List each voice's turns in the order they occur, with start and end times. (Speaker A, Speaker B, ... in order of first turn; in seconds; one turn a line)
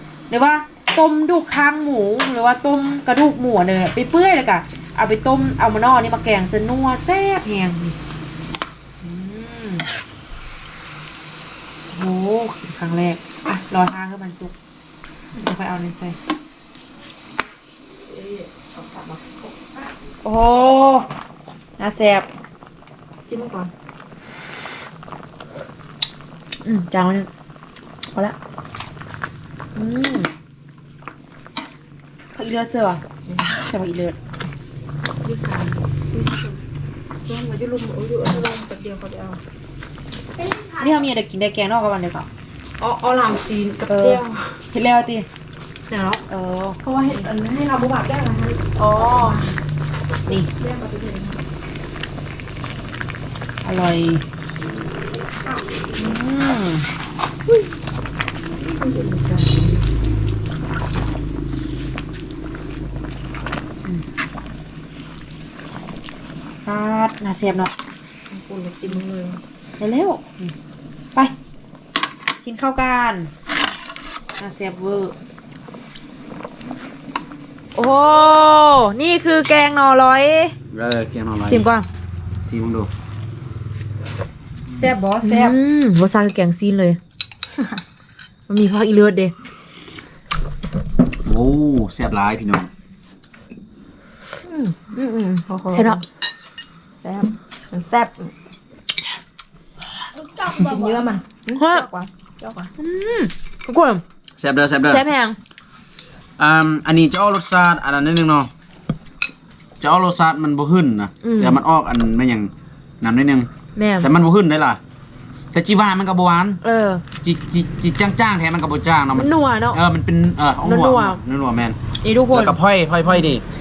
Speaker A: 0.3-8.0
Speaker A: 9.0-9.8
Speaker A: 11.9-14.5
Speaker A: 15.3-16.2
Speaker B: 18.0-19.9
Speaker A: 20.2-21.1
Speaker A: 21.8-22.3
Speaker B: 23.3-23.7
Speaker A: 26.6-27.3
Speaker A: 29.7-30.3
Speaker A: 32.3-33.0
Speaker A: 33.5-34.2
Speaker B: 35.2-36.6
Speaker B: 37.2-39.4
Speaker A: 40.7-42.3
Speaker B: 42.8-44.6
Speaker A: 43.9-44.2
Speaker A: 44.7-45.3
Speaker B: 45.9-46.2
Speaker A: 46.2-47.2
Speaker B: 46.8-49.6
Speaker A: 48.8-49.4
Speaker B: 50.3-51.4
Speaker A: 53.6-54.2
Speaker B: 55.1-56.1
Speaker A: 55.9-56.9
Speaker B: 58.4-59.8
Speaker A: 66.7-67.7
Speaker B: 68.3-69.4
Speaker A: 69.8-70.5
Speaker A: 72.4-73.3
Speaker A: 74.4-75.1
Speaker A: 77.7-80.5
Speaker C: 80.7-81.6
Speaker A: 81.5-81.9
Speaker C: 82.4-82.9
Speaker C: 84.7-85.0
Speaker B: 84.8-85.5
Speaker A: 85.2-87.0
Speaker A: 88.5-89.3
Speaker C: 91.2-92.7
Speaker A: 94.5-94.9
Speaker B: 94.9-96.0
Speaker A: 95.7-96.0
Speaker B: 97.0-98.3
Speaker B: 100.1-102.7
Speaker A: 100.8-101.0
Speaker A: 101.5-101.9
Speaker A: 102.8-104.0
Speaker C: 104.4-105.0
Speaker A: 104.8-105.4
Speaker C: 106.4-108.5
Speaker C: 109.8-113.5
Speaker A: 111.2-111.6
Speaker A: 113.8-114.1
Speaker C: 114.0-114.8
Speaker C: 115.5-116.6
Speaker A: 116.6-117.0
Speaker C: 117.2-121.8
Speaker A: 119.2-119.8
Speaker A: 120.6-121.2
Speaker A: 122.0-122.6
Speaker C: 122.3-123.4